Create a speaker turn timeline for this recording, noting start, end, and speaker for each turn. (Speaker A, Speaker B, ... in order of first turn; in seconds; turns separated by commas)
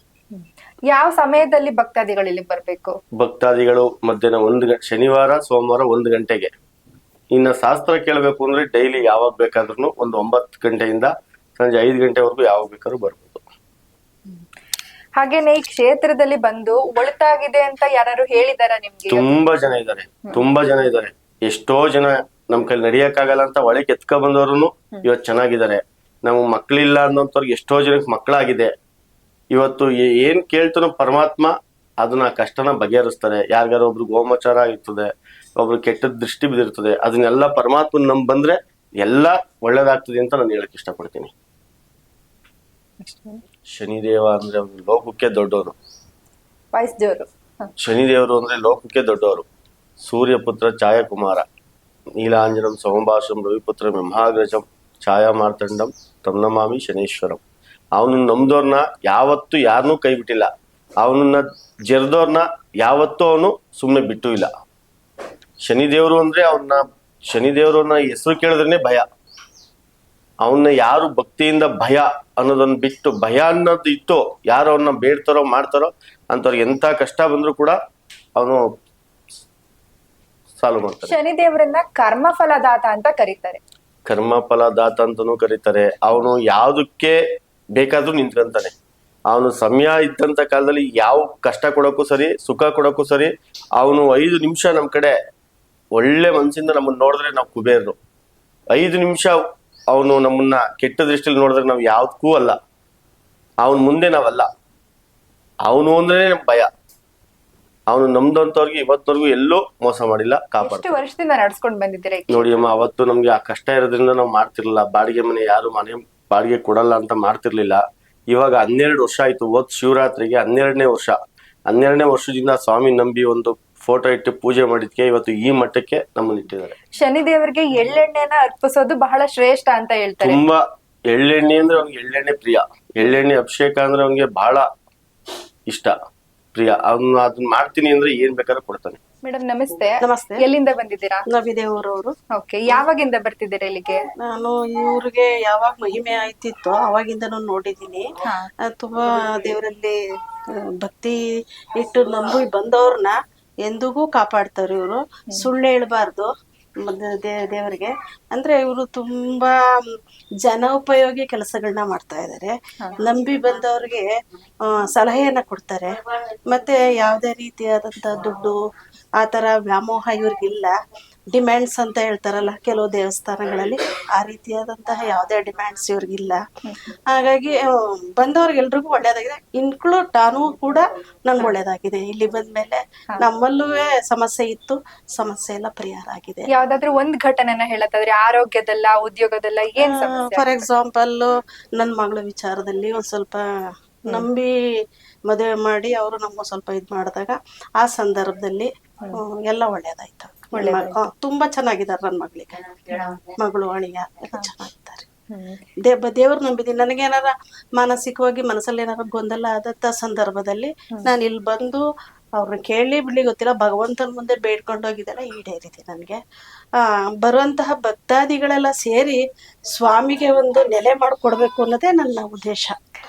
Speaker A: 0.3-2.9, Speaker B: 3.2-6.5, Speaker B: 7.3-13.4, Speaker A: 15.2-19.2, Speaker B: 19.1-28.7, Speaker B: 29.5-41.3, Speaker A: 43.0-43.4, Speaker B: 43.7-45.7, Speaker A: 46.7-47.7, Speaker B: 47.8-49.4, Speaker B: 50.0-51.4, Speaker B: 52.2-57.4, Speaker B: 57.9-60.5, Speaker B: 61.0-64.5, Speaker B: 65.6-69.0, Speaker B: 70.4-77.8, Speaker B: 78.3-78.6, Speaker B: 80.6-81.1, Speaker A: 81.0-83.6, Speaker B: 84.0-87.2, Speaker B: 87.8-88.7, Speaker B: 89.3-95.1, Speaker B: 95.9-98.0, Speaker B: 98.7-99.4, Speaker B: 99.9-102.5, Speaker B: 103.6-104.5, Speaker B: 105.7-106.7, Speaker B: 107.9-110.9, Speaker A: 110.6-112.7, Speaker B: 112.3-121.2, Speaker B: 121.7-126.7, Speaker A: 127.0-130.4, Speaker B: 130.2-134.6, Speaker B: 135.7-135.9, Speaker B: 136.5-139.0, Speaker A: 139.2-141.2, Speaker C: 140.0-140.4, Speaker C: 141.3-142.2, Speaker A: 142.3-144.0, Speaker C: 144.2-148.1, Speaker C: 148.7-150.0, Speaker C: 150.8-151.2, Speaker C: 151.8-156.3, Speaker C: 156.8-159.5, Speaker C: 160.4-164.1, Speaker C: 164.7-165.9, Speaker C: 166.5-168.6, Speaker C: 169.2-170.7, Speaker C: 171.3-176.4, Speaker C: 177.1-177.6, Speaker C: 178.2-186.4, Speaker A: 186.5-190.7, Speaker C: 189.8-193.4, Speaker C: 194.0-194.5, Speaker C: 195.3-205.1, Speaker A: 200.5-201.0, Speaker A: 202.9-203.2, Speaker A: 205.3-205.6, Speaker C: 205.8-211.8, Speaker C: 212.4-216.2, Speaker C: 216.8-219.2, Speaker C: 219.7-222.7